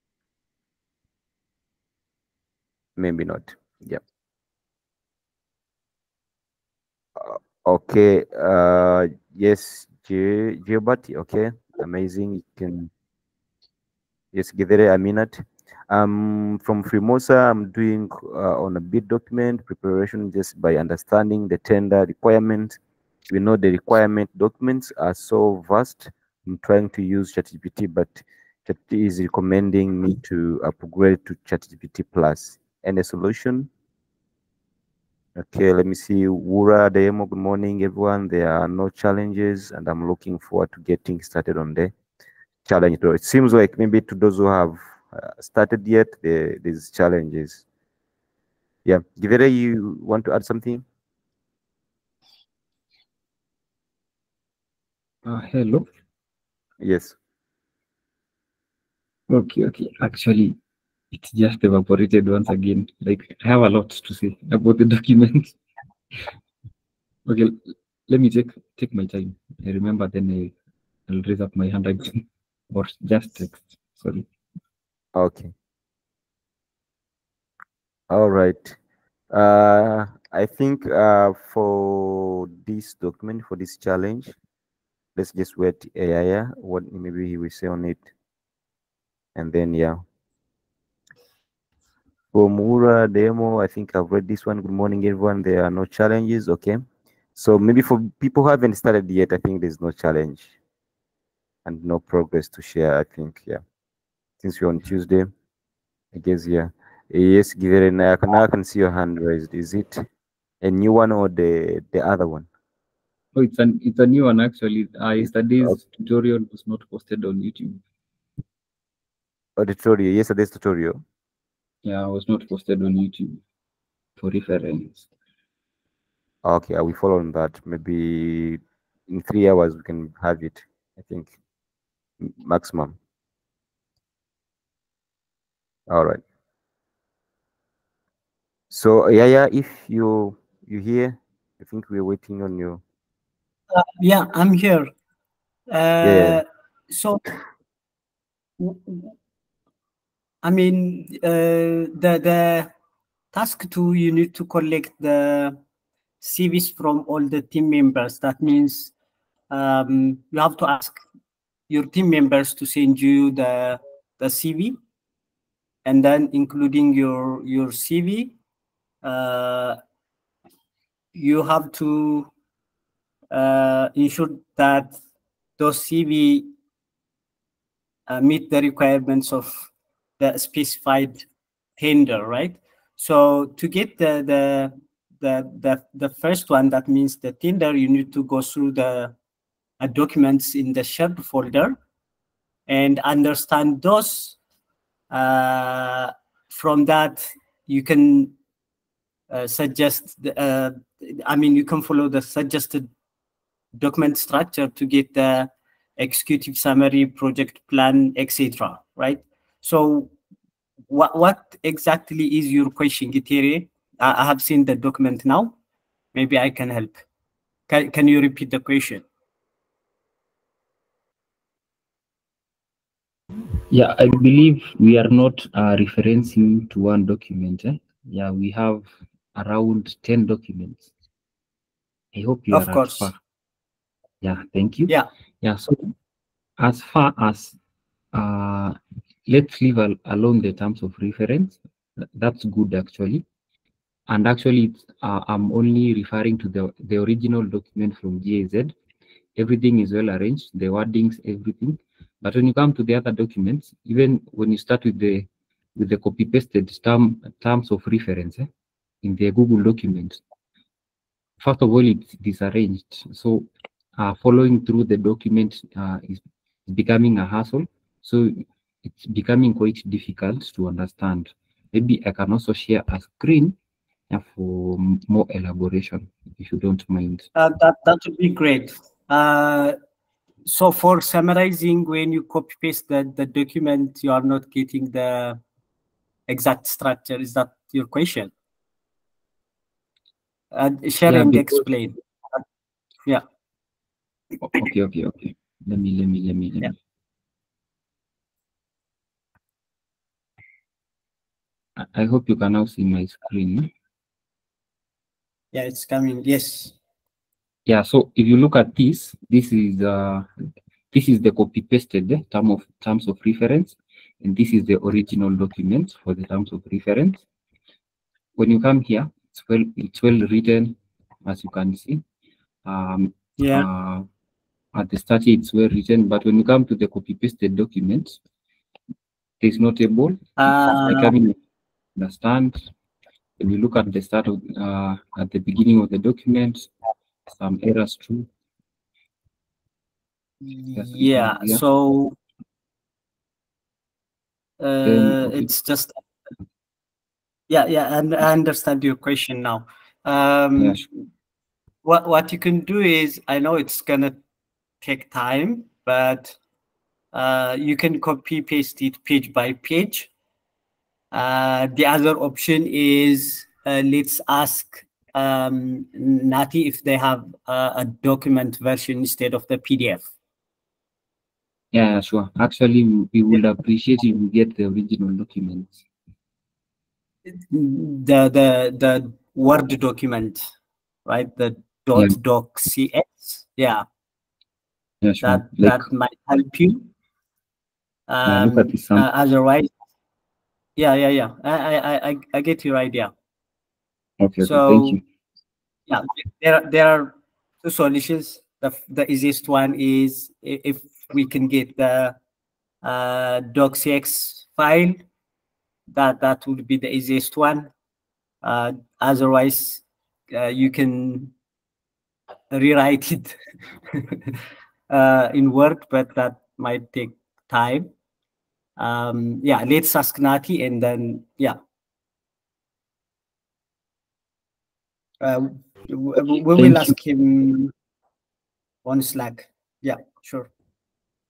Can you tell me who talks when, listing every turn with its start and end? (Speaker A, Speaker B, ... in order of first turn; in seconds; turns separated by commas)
Speaker A: 3.0-4.0, Speaker A: 7.2-12.9, Speaker A: 14.3-22.8, Speaker A: 23.3-33.7, Speaker A: 35.4-41.9, Speaker A: 42.6-47.6, Speaker A: 48.9-50.9, Speaker B: 55.2-55.9, Speaker A: 56.8-57.2, Speaker B: 59.3-60.6, Speaker B: 61.1-65.6, Speaker B: 67.3-70.5, Speaker B: 71.1-74.3, Speaker A: 75.2-75.5, Speaker A: 78.1-78.8, Speaker A: 79.3-84.3, Speaker A: 85.2-88.1, Speaker A: 89.4-90.0, Speaker A: 92.3-96.8, Speaker A: 97.4-100.5, Speaker A: 101.7-103.6, Speaker A: 104.4-105.3, Speaker A: 106.1-110.1, Speaker A: 110.6-112.5, Speaker B: 113.3-117.8, Speaker A: 115.2-115.8, Speaker A: 119.6-121.0, Speaker B: 121.8-123.4, Speaker B: 124.2-125.1, Speaker A: 126.4-131.3, Speaker A: 132.2-133.0, Speaker A: 135.9-136.2, Speaker A: 138.7-142.8, Speaker C: 143.7-144.9, Speaker C: 145.7-147.2, Speaker A: 146.0-146.4, Speaker C: 148.6-149.2, Speaker C: 150.4-152.7, Speaker C: 153.3-155.6, Speaker C: 156.2-158.9, Speaker C: 159.5-161.0, Speaker C: 161.7-164.8, Speaker C: 165.8-168.3, Speaker C: 169.0-169.8, Speaker C: 171.1-172.3, Speaker C: 173.3-175.0, Speaker C: 175.6-176.5, Speaker C: 178.1-179.7, Speaker C: 180.2-181.3, Speaker C: 181.8-189.2, Speaker C: 189.8-191.8, Speaker C: 192.7-194.4, Speaker C: 195.1-198.3, Speaker C: 199.3-202.9, Speaker C: 203.8-210.1, Speaker C: 210.9-215.6, Speaker C: 216.1-216.9, Speaker C: 217.7-219.1, Speaker B: 223.7-230.9, Speaker B: 232.1-233.2, Speaker C: 232.5-233.1, Speaker B: 234.2-235.9, Speaker B: 236.6-237.6, Speaker B: 238.1-243.2, Speaker B: 244.1-248.8, Speaker B: 249.4-258.5, Speaker B: 259.0-260.2, Speaker B: 261.4-273.6, Speaker B: 274.1-277.3, Speaker C: 277.4-279.8, Speaker C: 280.4-285.4, Speaker C: 286.3-288.3, Speaker C: 290.5-292.0, Speaker B: 291.1-291.6, Speaker B: 294.4-296.7, Speaker B: 301.8-303.7, Speaker C: 305.5-306.8, Speaker B: 307.7-310.3, Speaker B: 310.9-317.2, Speaker B: 318.4-322.0, Speaker B: 322.6-324.1, Speaker C: 323.4-323.7, Speaker B: 324.7-328.2, Speaker B: 329.4-331.4, Speaker C: 330.4-331.1, Speaker B: 332.0-332.7, Speaker B: 333.4-336.7, Speaker B: 337.3-338.3, Speaker C: 340.4-342.1, Speaker B: 340.8-341.6, Speaker C: 344.6-346.0, Speaker B: 344.9-345.5, Speaker C: 347.5-350.8, Speaker B: 350.6-350.9, Speaker C: 351.8-354.2, Speaker C: 354.8-356.4, Speaker C: 357.1-360.1, Speaker C: 361.1-370.1, Speaker B: 371.7-375.8, Speaker C: 377.5-380.4, Speaker C: 381.1-383.9, Speaker B: 385.0-385.9, Speaker C: 385.2-386.9, Speaker C: 388.1-389.7, Speaker B: 388.3-389.1, Speaker C: 390.8-393.1, Speaker B: 394.2-395.0, Speaker C: 394.4-395.0, Speaker C: 395.9-402.2, Speaker C: 402.8-405.0, Speaker C: 405.9-407.7, Speaker C: 408.4-411.3, Speaker C: 412.5-413.4, Speaker C: 414.9-417.9, Speaker C: 418.8-421.6, Speaker C: 425.2-427.7, Speaker B: 426.6-426.9, Speaker C: 428.9-430.5